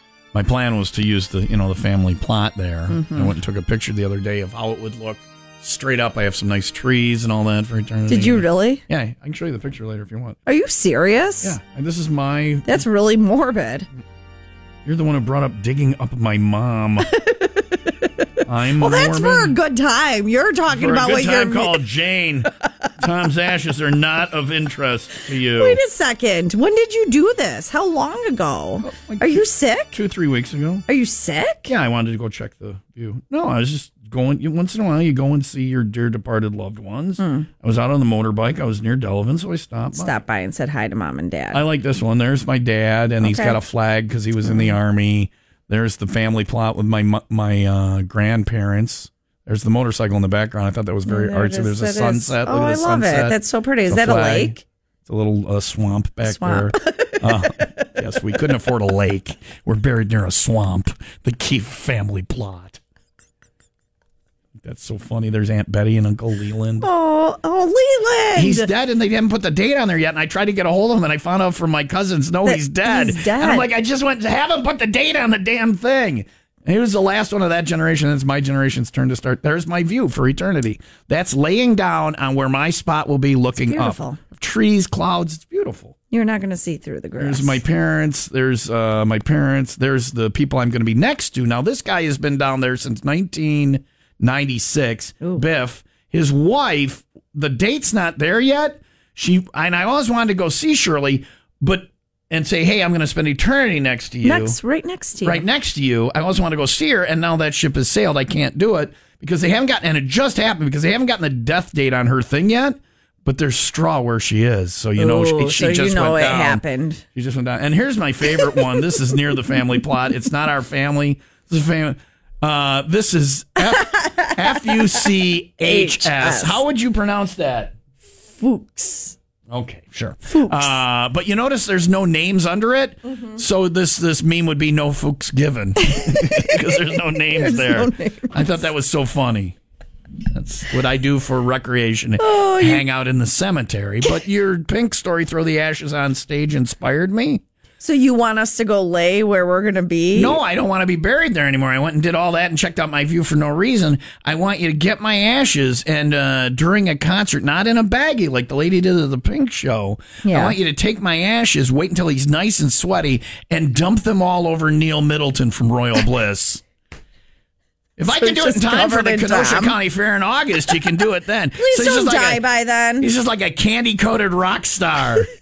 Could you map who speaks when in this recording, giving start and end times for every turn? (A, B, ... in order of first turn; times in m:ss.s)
0:00.3-0:10.4 A
0:02.9-0:03.3 B
0:08.1-0:08.8 B
0:10.5-0:11.6 B
0:11.4-0:12.8 A
0:12.7-0:13.9 B
0:14.8-0:17.1 A
0:17.1-0:17.9 B
0:18.4-0:21.8 B
0:18.5-0:19.6 A
0:20.7-0:25.8 A
0:25.5-0:30.0 B
0:28.8-0:30.9 A
0:30.9-0:31.7 B
0:31.7-0:40.2 A
0:37.2-0:37.5 B
0:39.9-0:41.6 B
0:41.5-1:02.8 A
0:43.2-0:43.6 B
0:44.4-0:44.8 B
0:51.1-0:54.6 B
0:56.2-0:57.4 B
1:04.6-1:06.9 A
1:06.8-1:08.7 B
1:08.4-1:25.9 A
1:12.4-1:13.7 B
1:23.6-1:24.2 B
1:26.1-1:27.6 B
1:27.2-1:44.6 A
1:44.2-1:45.4 B
1:45.2-1:56.6 A
1:55.0-1:57.0 B
1:57.1-2:07.8 A
2:03.7-2:05.1 B
2:05.6-2:06.6 B
2:08.4-2:09.2 B
2:09.5-2:19.6 A
2:10.3-2:10.7 B
2:15.8-2:18.6 B
2:20.3-2:27.4 A
2:22.2-2:22.8 B
2:27.8-2:30.4 B
2:30.2-2:46.6 A
2:40.2-2:40.6 B
2:48.0-2:52.4 A
2:48.1-2:49.8 B
2:51.6-2:53.1 B
2:53.0-2:55.3 A